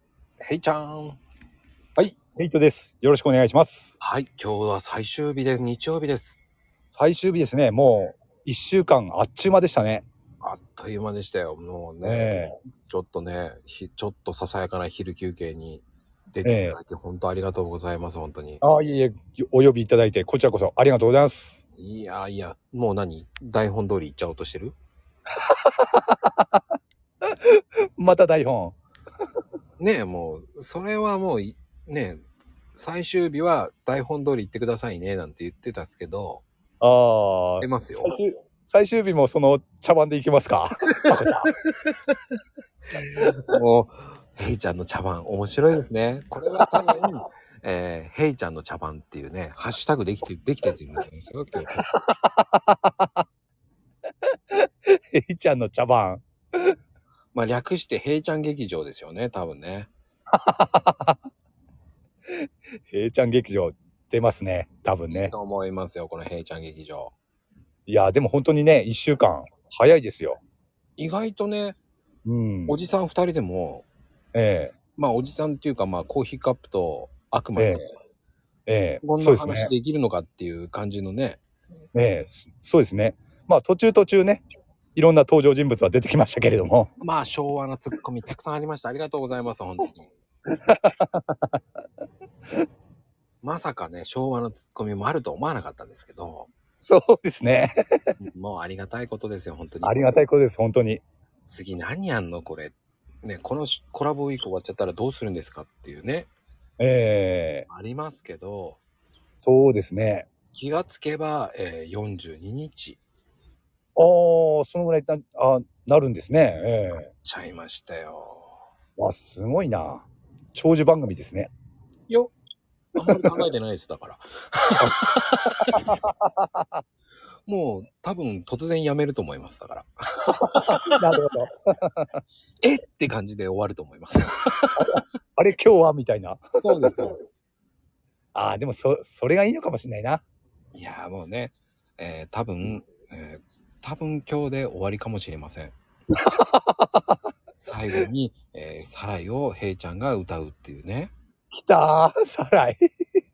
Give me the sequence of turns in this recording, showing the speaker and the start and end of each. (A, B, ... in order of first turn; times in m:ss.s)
0:00.4-0:01.2 A
0:02.0-0:04.0 B
0:04.0-0:06.4 A
0:06.9-0:10.0 B
0:10.4-0:18.6 A
0:12.0-0:12.5 B
0:16.4-0:16.8 B
0:18.6-0:21.6 B
0:21.7-0:24.8 A
0:25.4-0:26.6 B
0:27.3-0:28.8 B
0:29.8-0:32.2 A
0:32.7-0:36.4 A
0:36.8-0:41.5 B
0:37.6-0:38.2 A
0:43.5-0:51.8 A
0:51.8-0:53.2 B
0:54.5-0:56.8 B
0:57.3-0:59.9 A
1:00.3-1:01.2 B
1:02.3-1:05.3 B
1:05.1-1:07.1 A
1:07.9-1:10.4 B
1:11.0-1:11.8 A
1:12.2-1:12.8 B
1:12.7-1:13.8 A
1:14.3-1:14.7 B
1:15.0-1:17.8 A
1:17.6-1:17.8 B
1:18.7-1:19.7 B
1:19.0-1:21.4 A
1:21.9-1:24.4 B
1:25.0-1:26.9 B
1:27.0-1:30.1 A
1:30.5-1:31.6 B
1:33.4-1:36.5 A
1:36.8-1:38.1 B
1:38.2-1:40.2 A
1:39.8-1:41.0 B
1:41.4-1:46.3 A
1:46.8-1:47.7 B
1:47.7-1:48.8 A
1:49.4-1:50.3 B
1:50.5-1:53.0 A
1:54.0-1:57.1 B
1:57.2-1:58.5 A
1:59.0-2:01.5 B
2:02.1-2:02.3 A
2:02.9-2:05.9 A
2:03.0-2:03.5 B
2:04.8-2:06.8 B
2:07.5-2:10.9 A
2:10.5-2:12.2 B
2:12.6-2:14.8 A
2:14.8-2:16.9 B
2:16.6-2:17.2 A
2:18.3-2:20.2 B
2:20.7-2:25.7 A
2:26.2-2:27.2 B
2:27.6-2:31.1 A
2:31.5-2:32.9 B